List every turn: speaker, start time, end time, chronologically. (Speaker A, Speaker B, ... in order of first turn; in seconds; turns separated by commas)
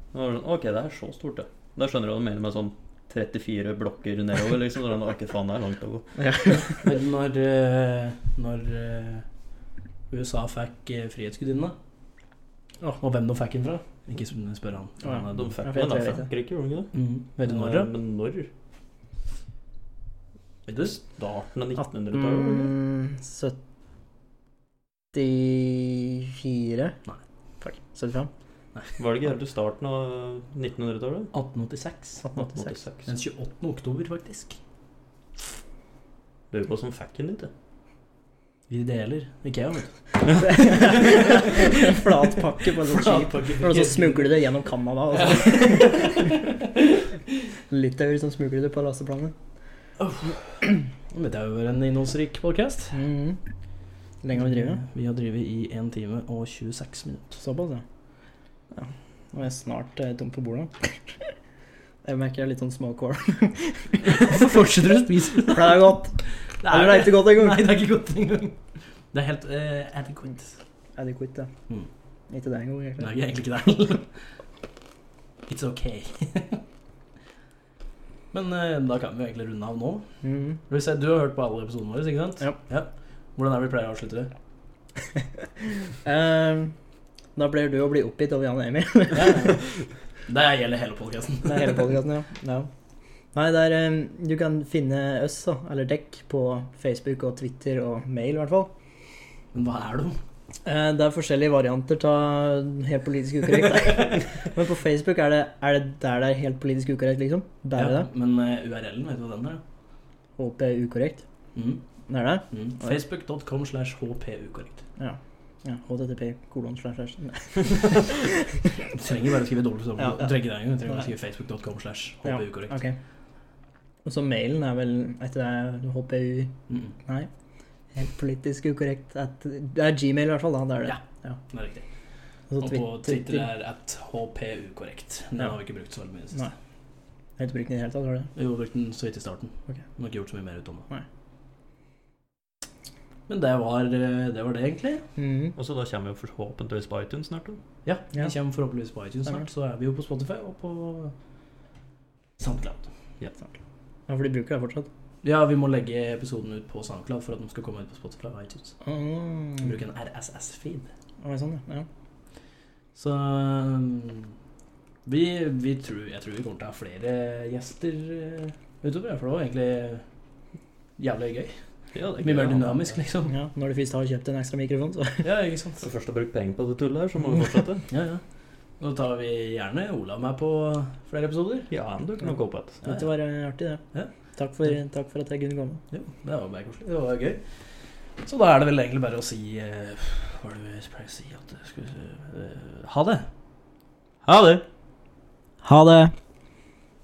Speaker A: 0.1-6.1, Speaker B: 6.2-6.8, Speaker C: 6.8-9.2, Speaker C: 10.1-11.7, Speaker C: 13.0-15.4, Speaker B: 15.0-16.3, Speaker A: 15.2-18.5, Speaker C: 16.9-17.9, Speaker C: 20.7-21.0, Speaker A: 20.8-22.7, Speaker B: 21.8-23.6, Speaker B: 25.1-27.0, Speaker B: 27.6-28.3, Speaker A: 29.0-31.3, Speaker C: 31.3-32.2, Speaker B: 32.2-32.8, Speaker A: 32.3-33.1, Speaker C: 33.1-34.6, Speaker A: 36.5-37.5, Speaker C: 38.7-40.0, Speaker B: 40.4-46.4, Speaker C: 40.5-42.0, Speaker C: 42.8-44.4, Speaker C: 45.1-46.7, Speaker B: 47.7-49.3, Speaker C: 50.0-53.0, Speaker B: 52.9-53.4, Speaker B: 54.2-54.8, Speaker C: 54.4-57.4, Speaker B: 57.4-57.8, Speaker B: 58.7-60.9, Speaker B: 62.0-64.4, Speaker C: 64.1-66.0, Speaker B: 65.4-67.7, Speaker C: 66.6-68.6, Speaker C: 69.1-70.5, Speaker B: 71.0-71.5, Speaker B: 72.3-73.1, Speaker C: 73.0-74.1, Speaker C: 75.5-76.6, Speaker C: 78.3-80.1, Speaker B: 80.2-80.6, Speaker C: 80.7-84.3, Speaker B: 86.0-86.7, Speaker B: 87.3-89.6, Speaker C: 89.1-89.6, Speaker C: 90.3-91.9, Speaker B: 91.5-92.7, Speaker B: 93.3-98.7, Speaker C: 99.5-100.2, Speaker B: 100.6-108.1, Speaker C: 103.7-104.1, Speaker C: 107.8-109.6, Speaker B: 110.4-111.2, Speaker C: 111.5-111.8, Speaker B: 112.1-113.0, Speaker C: 112.5-114.8, Speaker B: 115.0-118.6, Speaker C: 118.9-122.8, Speaker B: 120.0-120.3, Speaker B: 122.2-123.0, Speaker B: 124.0-126.5, Speaker C: 126.7-126.9, Speaker B: 127.9-131.4, Speaker C: 130.9-131.8, Speaker B: 132.5-133.5, Speaker C: 132.6-136.5, Speaker B: 137.4-138.3, Speaker C: 138.3-140.9, Speaker C: 143.3-145.1, Speaker B: 145.2-145.6, Speaker A: 145.6-147.6, Speaker C: 147.8-151.1, Speaker C: 152.4-152.8, Speaker B: 154.1-154.9, Speaker C: 155.2-158.7, Speaker B: 158.8-159.7, Speaker C: 159.6-160.9, Speaker B: 161.2-161.9, Speaker C: 162.9-164.3, Speaker C: 165.1-170.0, Speaker C: 171.0-171.6, Speaker A: 171.9-173.0, Speaker C: 172.2-173.3, Speaker B: 173.3-175.2, Speaker C: 175.2-175.8, Speaker A: 175.8-177.9, Speaker C: 177.9-178.2, Speaker C: 178.8-181.7, Speaker A: 181.7-182.8, Speaker B: 182.8-183.8, Speaker B: 184.3-185.8, Speaker C: 185.9-187.4, Speaker C: 188.2-193.3, Speaker A: 194.2-194.6, Speaker B: 195.6-196.1